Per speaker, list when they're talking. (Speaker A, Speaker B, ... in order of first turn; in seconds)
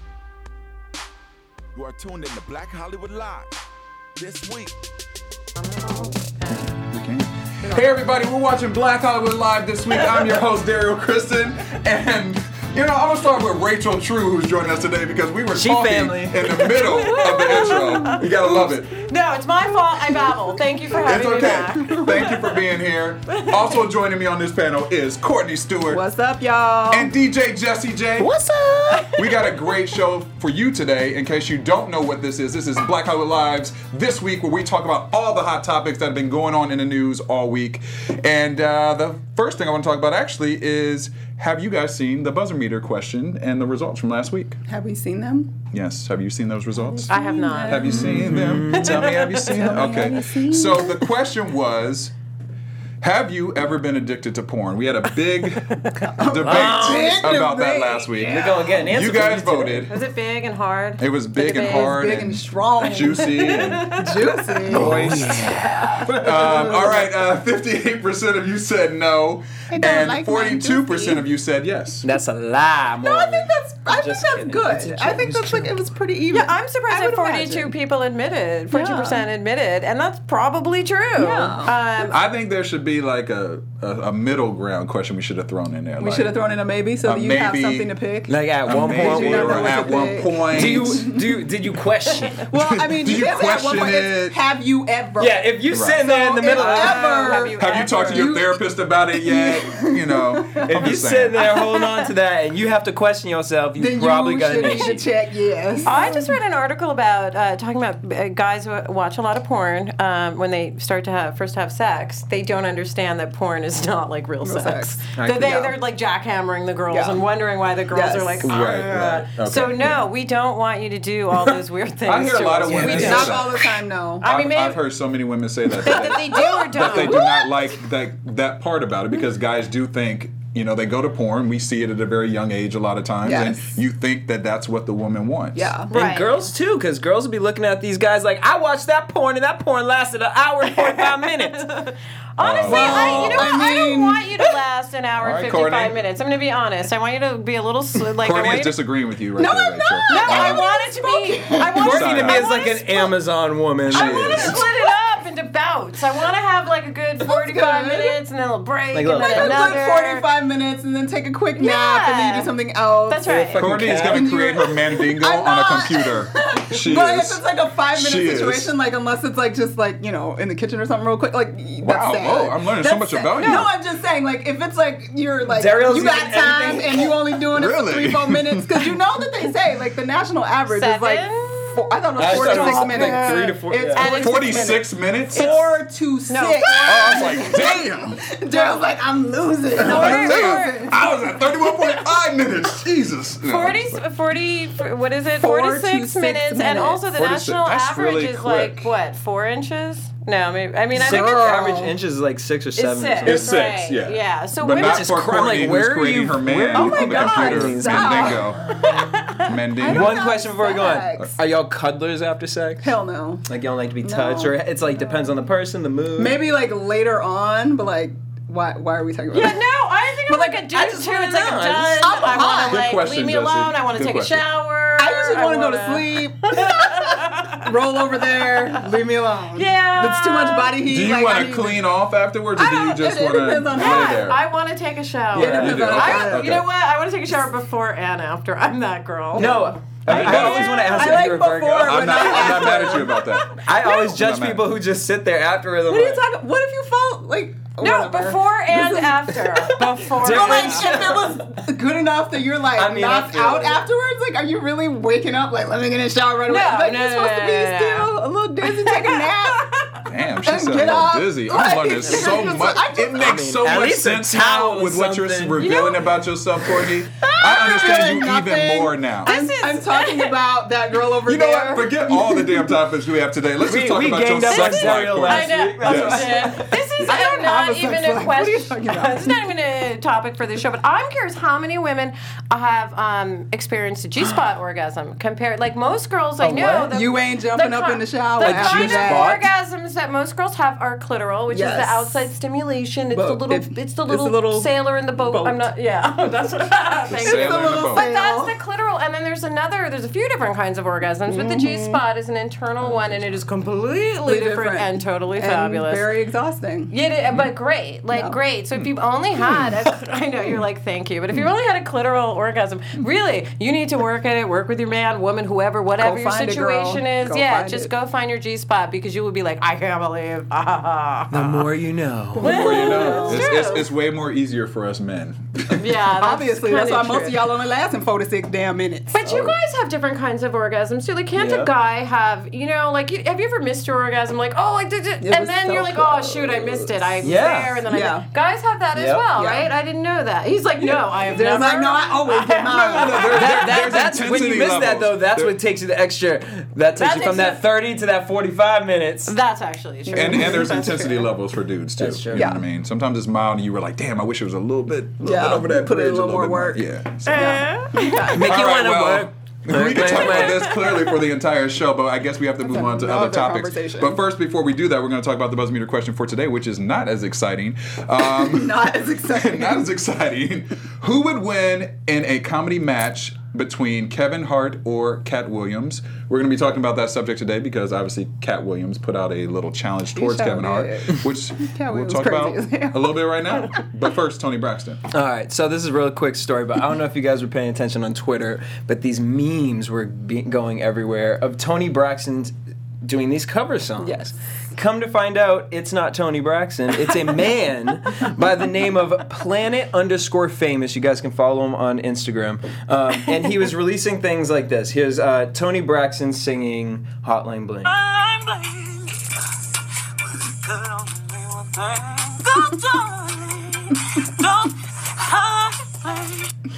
Speaker A: 1.7-3.6, 4.2-4.8
Speaker B: 5.6-6.7, 16.6-18.2, 19.0-22.3, 47.1-48.0, 48.7-49.5, 55.8-56.1, 59.9-62.0, 62.9-64.6, 65.5-66.0, 76.3-82.2, 96.4-98.4, 101.4-102.1, 104.6-105.0, 105.8-123.4, 124.2-124.8, 125.8-127.3, 135.9-136.5, 140.7-148.8, 150.1-153.1, 153.9-160.3, 161.6-162.5, 163.1-163.7, 173.3-173.7, 180.7-187.6, 189.8-192.2, 193.4-201.8, 202.8-205.2, 208.7-209.5, 219.3-227.7, 228.4-228.8, 229.6-230.8, 233.8-241.3, 242.6-244.2, 247.8-251.1, 256.5-258.1, 258.7-260.0, 262.1-262.5, 265.6-266.2, 267.5-268.2, 269.2-270.4, 274.4-306.1, 306.9-321.7, 322.4-323.9, 325.7-327.4, 329.1-343.9, 346.9-347.6, 349.3-351.3, 357.3-358.5, 360.3-360.7
Speaker C: 6.5-19.1, 21.0-26.0, 26.9-28.4, 29.1-44.6, 45.7-47.1, 47.7-52.1, 53.0-60.0, 61.0-64.0, 64.7-72.1, 82.1-86.4, 87.0-87.9, 88.7-91.1, 92.5-94.4, 95.7-96.0, 97.6-101.4, 118.5-120.0, 122.0-123.6, 124.2-135.8, 142.4-143.7, 145.2-146.0, 148.2-150.6, 151.8-152.5, 153.9-154.7, 163.6-168.7, 171.8-173.7, 177.5-179.0, 184.0-185.5, 186.8-188.2, 189.8-194.0, 197.1-198.9, 203.2-208.6, 209.4-210.2, 222.7-224.5, 230.8-234.4, 235.4-236.7, 240.1-240.9, 241.8-244.7, 260.1-269.4, 271.1-277.1, 297.1-298.1, 302.9-303.4, 322.4-325.9, 342.7-345.6, 350.1-357.6, 358.4-385.0
Speaker D: 7.7-8.0, 17.2-18.7, 19.9-21.0, 21.7-22.3, 25.9-27.1, 28.4-29.1, 44.7-45.5, 47.1-51.0, 56.0-58.8, 61.6-65.4, 69.7-71.2, 73.0-77.7, 78.7-79.2, 81.2-82.1, 86.0-91.4, 92.5-98.6, 99.1-100.8, 103.8-106.4, 114.4-115.7, 116.9-117.2, 117.9-118.5, 122.8-124.2, 125.8-127.7, 133.2-133.8, 135.6-135.9, 142.7-144.3, 149.4-152.2, 154.4-154.8, 157.2-158.2, 159.1-191.0, 195.4-197.0, 201.0-201.9, 206.7-208.4, 209.8-211.3, 212.8-213.5, 214.0-214.6, 216.2-219.6, 220.3-220.6, 222.0-222.9, 225.0-231.9, 232.6-234.3, 235.4-236.5, 239.4-239.7, 240.4-243.2, 245.9-259.7, 260.4-263.5, 267.2-272.8, 277.1-279.4, 286.9-289.4, 291.5-292.2, 293.1-295.7, 297.1-298.6, 301.3-302.0, 304.3-306.9, 316.0-317.9, 322.4-323.5, 326.2-329.2, 335.2-337.2, 337.8-338.3, 339.3-339.7, 341.2-343.6, 350.1-351.0, 352.3-352.6, 355.2-358.5, 362.6-364.2, 368.3-369.9, 380.2-383.2, 394.0-394.3
Speaker E: 15.5-16.6, 28.2-29.1, 47.9-49.2, 56.3-57.4, 58.2-59.9, 64.7-67.0, 72.0-75.9, 88.3-92.5, 95.2-97.4, 100.7-105.1, 115.2-115.6, 118.5-119.3, 122.7-123.3, 135.9-141.7, 142.7-143.2, 151.6-154.6, 158.9-159.8, 163.3-164.3, 175.5-177.3, 182.2-184.2, 200.9-203.6, 204.8-212.9, 213.5-216.4, 220.7-222.3, 235.3-236.4, 239.3-242.7, 243.6-246.2, 250.1-251.6, 252.7-253.8, 262.1-262.5, 263.2-265.7, 273.6-276.8, 286.4-286.9, 288.4-289.5, 321.3-323.1, 331.4-331.7, 337.2-337.8, 338.9-339.3, 343.3-349.3, 352.0-352.5, 358.3-360.9, 385.1-407.9
Speaker F: 407.9-409.3, 410.2-416.5